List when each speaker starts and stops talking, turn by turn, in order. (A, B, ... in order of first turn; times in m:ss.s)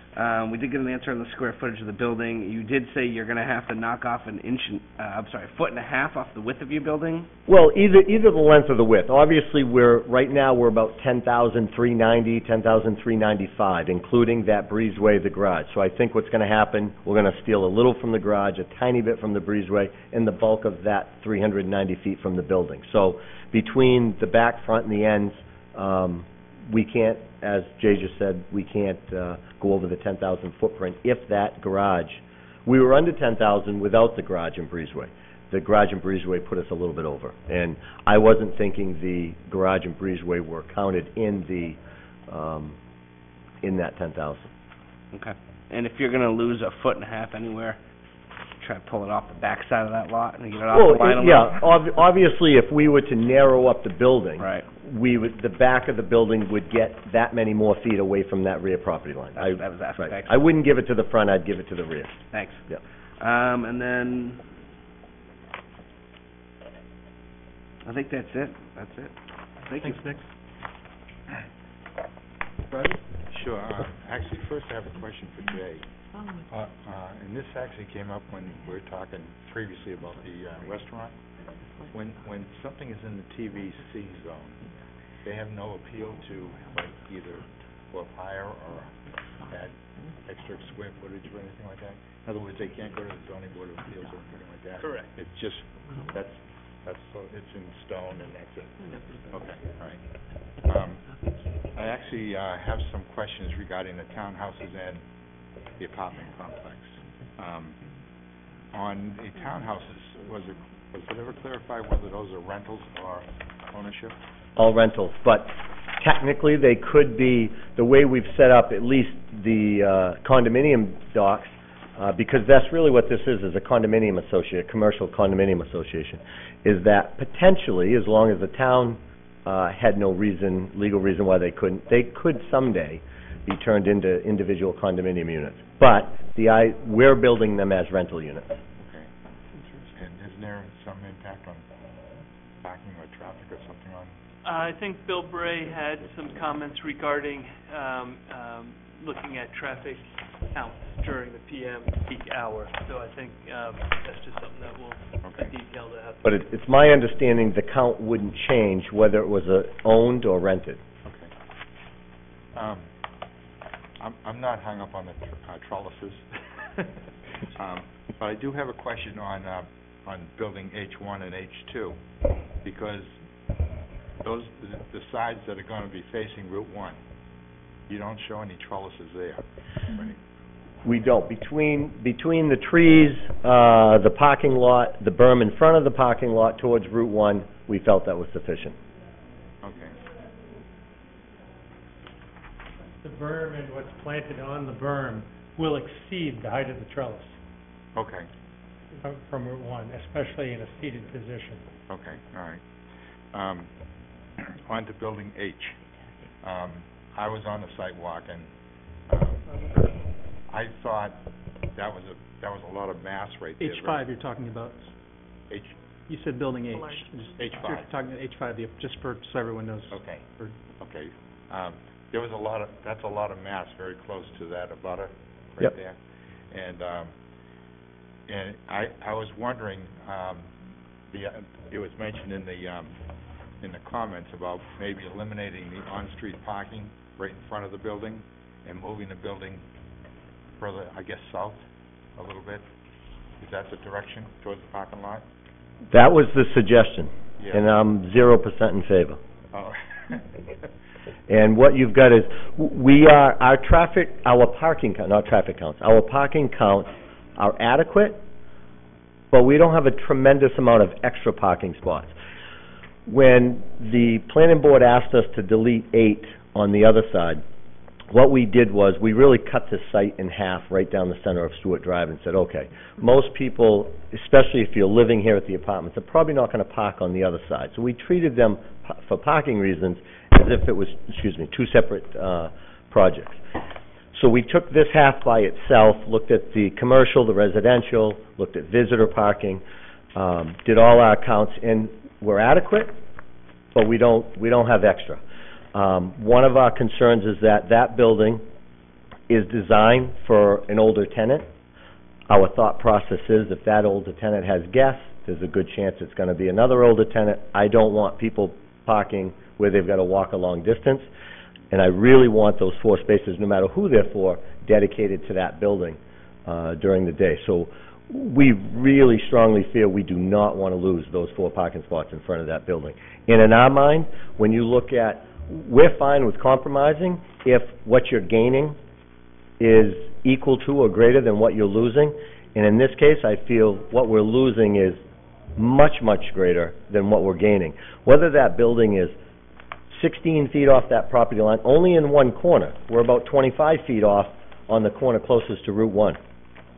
0:00.2-0:07.3 A
0:07.5-0:42.8 B
0:43.6-0:44.5 B
0:45.1-0:47.8 A
0:48.6-0:51.8 A
0:50.7-1:02.8 B
0:54.4-0:54.7 A
0:59.4-1:00.4 A
1:02.3-1:02.6 A
1:03.2-1:04.5 A
1:07.8-1:09.1 A
1:09.6-1:10.1 A
1:09.8-1:10.2 C
1:13.3-1:15.8 D
1:16.5-1:21.2 D
1:21.9-1:24.6 D
1:25.2-1:40.0 D
1:34.8-1:35.1 E
1:40.6-1:41.2 D
1:41.7-1:45.0 D
1:45.8-1:47.8 D
1:48.7-1:54.2 D
1:54.6-2:18.6 B
2:18.8-2:19.1 D
2:19.9-2:21.6 D
2:22.6-2:24.2 D
2:24.4-2:36.3 E
2:35.2-2:35.5 D
2:36.2-2:40.8 B
2:41.0-2:41.3 D
2:42.6-2:42.9 D
2:44.0-2:46.3 D
2:47.6-2:52.0 D
2:52.6-2:53.1 D
2:54.2-2:57.0 D
2:57.9-3:00.2 D
3:00.8-3:08.8 B
3:09.6-3:10.0 D
3:13.0-3:17.4 F
3:17.9-3:18.3 D
3:19.0-3:21.6 F
3:21.9-3:22.6 D
3:23.3-3:23.7 D
3:24.4-3:25.8 D
3:26.4-3:28.5 D
3:29.1-3:29.6 D
3:30.5-3:31.2 D
3:31.7-3:34.0 D
3:33.6-3:34.9 C
3:36.1-3:40.6 C
3:37.4-3:37.8 D
3:39.9-3:40.2 D
3:40.8-3:46.0 D
3:46.5-3:47.1 D
3:48.3-3:50.5 D
3:51.1-3:52.9 D
3:53.6-3:59.6 D
4:00.6-4:01.6 D
4:02.2-4:02.7 D
4:03.4-4:05.2 D
4:05.9-4:09.2 B
4:07.4-4:07.7 D
4:09.5-4:10.2 D
4:11.3-4:18.2 B
4:19.3-4:22.1 B
4:23.1-4:27.4 B
4:28.1-4:43.4 B
4:44.1-4:49.6 B
4:50.2-4:53.0 B
4:53.7-4:55.2 B
4:55.7-4:58.4 B
4:59.3-5:01.5 B
5:02.3-5:11.1 B
5:11.7-5:28.8 B
5:29.6-5:35.0 B
5:35.6-5:39.2 B
5:39.9-5:46.2 B